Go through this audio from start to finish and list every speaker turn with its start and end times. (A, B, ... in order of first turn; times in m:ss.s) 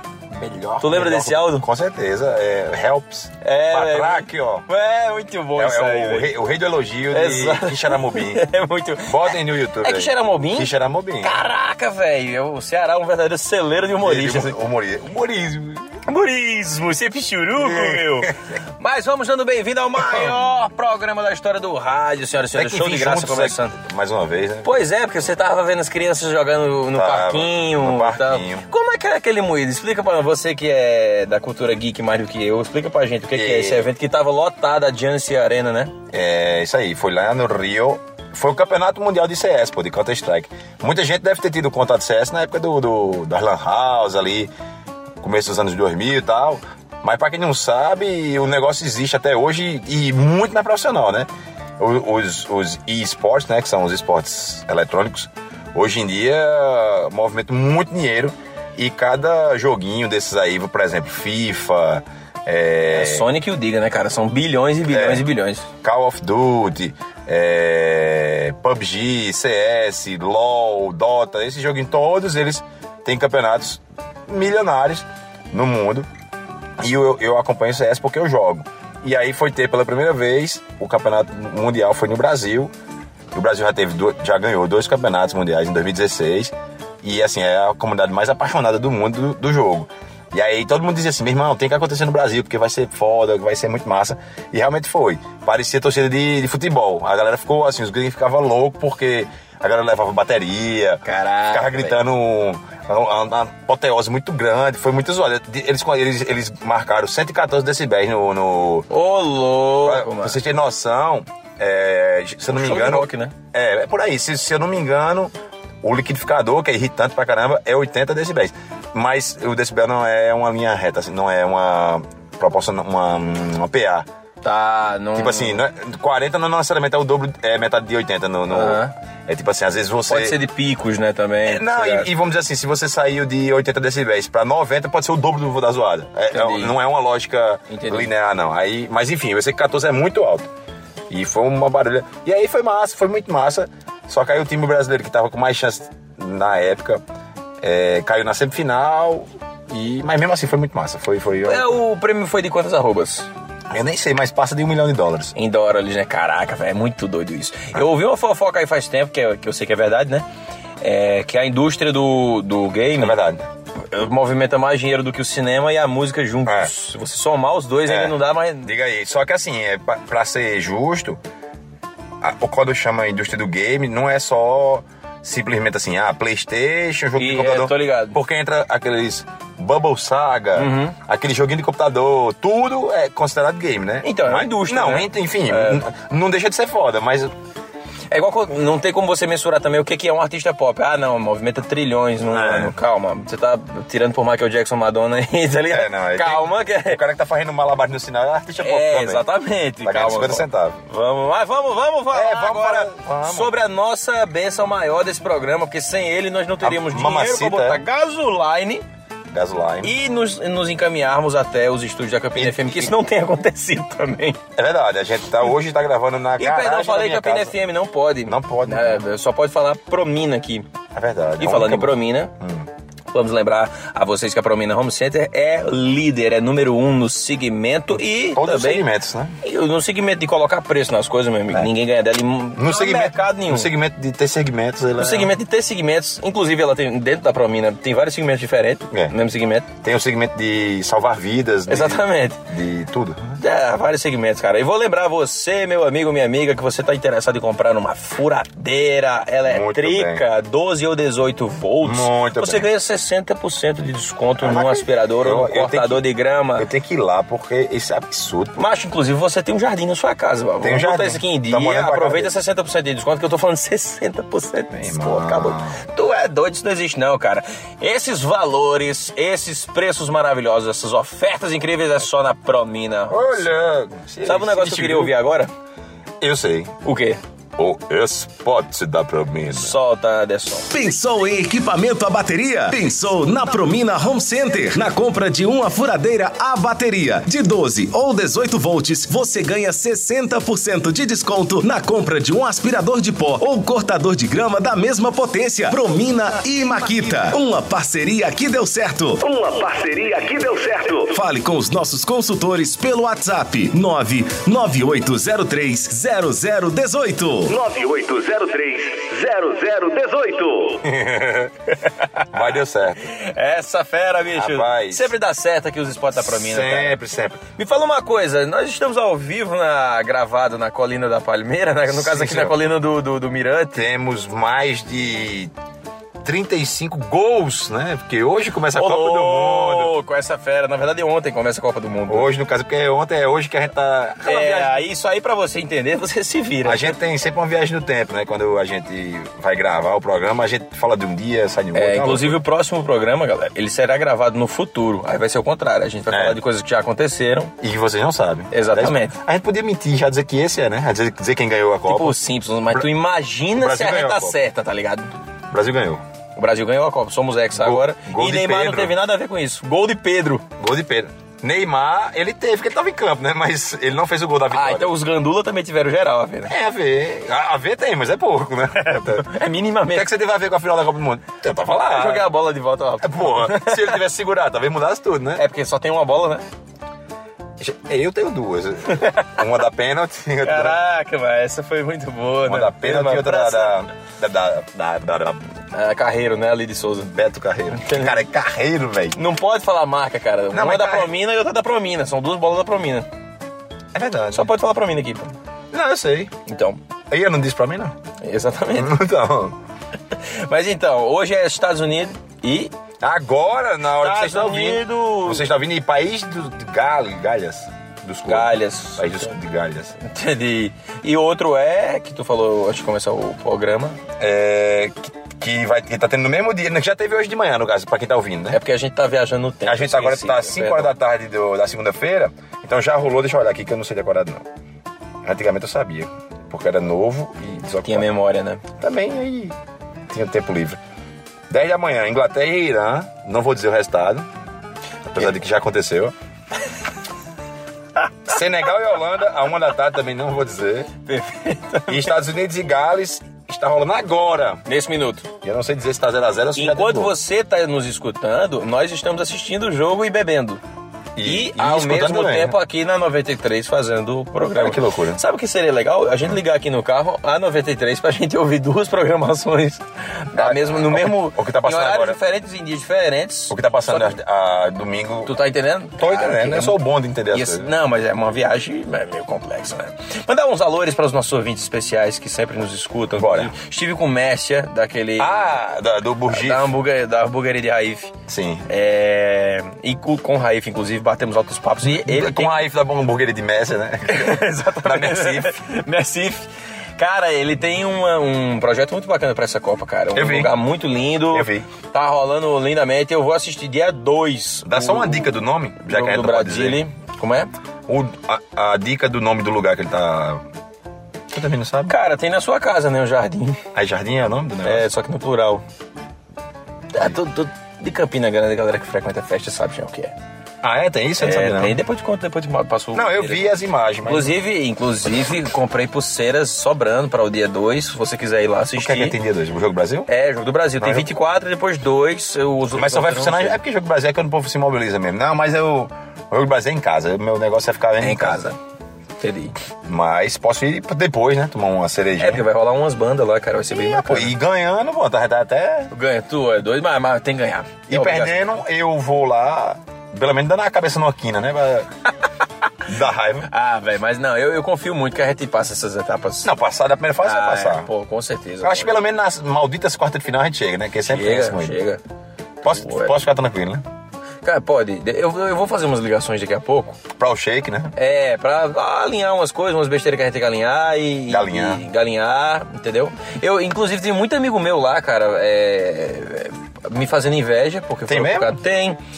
0:00.3-0:04.7 A
0:00.8-0:01.7 B
0:03.4-0:06.3 B
0:05.6-0:08.4 A
0:07.1-0:14.5 B
0:09.0-0:11.4 A
0:14.0-0:16.0 A
0:16.1-0:23.8 B
0:17.6-0:18.3 A
0:20.0-0:20.4 A
0:22.5-0:24.7 A
0:24.6-0:35.9 B
0:26.9-0:28.7 A
0:33.3-0:33.8 A
0:36.1-0:44.5 A
0:45.2-1:03.3 A
1:02.8-1:05.7 B
1:04.9-1:05.3 A
1:05.8-1:16.1 A
1:16.8-1:22.7 A
1:23.3-1:48.9 A
1:41.0-1:42.0 B
1:48.9-1:50.4 B
1:49.8-1:55.3 A
1:52.4-1:53.4 B
1:55.8-2:04.1 A
2:04.4-2:05.6 B
2:05.1-2:10.4 A
2:08.5-2:08.9 B
2:10.1-2:12.1 B
2:11.4-2:20.5 A
2:16.3-2:16.7 B
2:17.7-2:18.1 B
2:21.1-2:27.0 A
2:27.6-2:31.8 A
2:31.5-2:33.3 B
2:33.7-2:35.3 A
2:35.4-2:40.3 B
2:40.8-2:43.2 B
2:43.0-2:43.5 A
2:43.9-2:48.7 B
2:46.5-2:46.7 A
2:47.9-2:51.2 A
2:52.2-3:07.3 A
2:57.2-2:58.2 B
3:00.6-3:01.0 B
3:04.0-3:05.8 B
3:08.1-3:17.0 B
3:12.3-3:12.8 A
3:15.7-3:19.3 A
3:18.6-3:28.8 B
3:19.8-3:20.8 A
3:22.1-3:23.5 A
3:26.6-3:27.8 A
3:29.3-3:30.0 A
3:29.8-3:34.4 B
3:32.4-3:32.9 A
3:34.6-3:37.6 A
3:36.4-3:40.7 B
3:38.2-3:39.0 A
3:40.9-3:42.7 A
3:41.4-3:42.3 B
3:43.1-3:48.9 B
3:48.3-3:49.4 A
3:49.4-3:53.7 B
3:52.6-3:55.3 A
3:55.0-3:59.7 B
3:59.8-4:03.4 A
4:01.7-4:02.4 B
4:03.4-4:16.7 B
4:09.4-4:10.2 A
4:11.8-4:12.7 A
4:14.4-4:16.0 A
4:16.6-4:18.6 A
4:18.6-4:33.4 B
4:20.6-4:22.3 A
4:24.7-4:25.8 A
4:33.1-4:35.1 A
4:34.2-4:35.5 B
4:36.2-4:36.8 A
4:36.8-4:37.2 B
4:37.6-4:39.8 A
4:39.5-4:40.7 B
4:40.7-5:10.3 C
5:00.0-5:00.9 D
5:08.2-5:10.0 D
5:10.5-5:10.8 D
5:10.8-5:11.5 A
5:11.9-5:12.4 B
5:12.3-5:13.1 A
5:13.0-5:17.0 B
5:14.3-5:15.1 A
5:16.2-5:17.4 A
5:17.6-5:23.8 B
5:21.9-5:22.6 A
5:23.8-5:25.5 A
5:26.2-5:29.9 A
5:28.8-5:32.3 B
5:32.1-5:34.8 A
5:34.2-5:37.0 B
5:36.6-5:42.4 A
5:41.7-5:47.5 B
5:46.1-5:46.4 A
5:47.6-5:52.2 A
5:48.5-5:49.2 B
5:51.9-5:55.1 B
5:53.5-5:54.4 A
5:55.5-5:56.0 A
5:56.4-6:00.4 B
5:57.5-5:58.9 A
6:00.6-6:04.9 A
6:04.5-6:06.5 B
6:06.5-6:09.3 A
6:08.8-6:10.1 B
6:09.9-6:12.3 A
6:11.6-6:14.0 B
6:13.0-6:15.4 A
6:15.4-6:16.4 B
6:17.6-6:20.8 A
6:18.9-6:19.3 B
6:20.4-6:23.8 B
6:22.5-6:25.4 A
6:25.7-6:27.1 B
6:27.1-6:29.2 A
6:27.7-6:28.2 B
6:29.2-6:33.1 B
6:30.5-6:31.1 A
6:33.9-6:34.5 A
6:34.3-6:35.3 B
6:35.7-6:36.3 A
6:36.5-6:36.8 B
6:37.1-6:38.0 A
6:38.2-6:39.0 B
6:38.7-6:39.6 A
6:40.1-6:42.7 B
6:43.0-6:50.0 A
6:44.0-6:45.4 B
6:48.3-6:49.3 B
6:50.0-6:54.0 B
6:54.2-6:58.6 A
6:58.5-7:00.9 B
6:59.6-7:04.4 A
7:05.2-7:08.1 A
7:07.8-7:08.6 B
7:08.8-7:09.6 A
7:10.1-7:10.8 A
7:11.5-7:14.3 A
7:15.1-7:16.1 A
7:18.3-7:20.9 A
7:21.0-7:22.2 B
7:21.9-7:24.6 A
7:24.7-7:25.3 B
7:25.4-7:27.2 A
7:26.6-7:30.6 B
7:31.2-7:32.6 A
7:31.2-7:44.2 B
7:34.5-7:35.2 A
7:40.3-7:42.2 A
7:43.5-7:45.3 A
7:45.3-7:46.8 B
7:46.0-7:47.7 A
7:47.3-7:55.3 B
7:53.2-7:53.5 A
7:55.2-7:56.8 A
7:56.3-7:58.2 B
7:58.3-7:58.7 A
7:58.7-8:02.6 B
8:01.8-8:05.6 A
8:04.1-8:15.3 B
8:10.2-8:10.6 A
8:11.3-8:11.7 A
8:14.6-8:16.8 A
8:15.8-8:17.5 B
8:17.9-8:20.4 A
8:21.3-8:21.9 A
8:21.9-8:23.6 B
8:23.7-8:24.9 A
8:24.6-8:25.6 B
8:26.9-8:30.2 B
8:30.6-8:31.8 A
8:31.2-8:33.5 B
8:32.9-8:34.4 A
8:34.0-8:39.2 B
8:38.8-8:40.1 A
8:40.1-8:43.6 B
8:40.8-8:41.1 A
8:42.8-8:48.5 A
8:48.0-8:48.6 B
8:49.2-8:49.6 B
8:49.9-8:52.4 A
8:52.2-8:54.3 B
8:53.7-8:55.9 A
8:55.9-8:58.6 B
8:57.9-9:01.9 A
9:02.9-9:03.5 A
9:03.5-9:06.5 B
9:06.4-9:07.9 A
9:07.2-9:09.0 B
9:08.6-9:11.8 A
9:11.1-9:12.0 B
9:12.6-9:13.8 A
9:12.7-9:13.2 B
9:14.4-9:17.0 B
9:17.1-9:17.9 A
9:18.0-9:29.0 B
9:21.3-9:21.8 A
9:28.1-9:28.6 A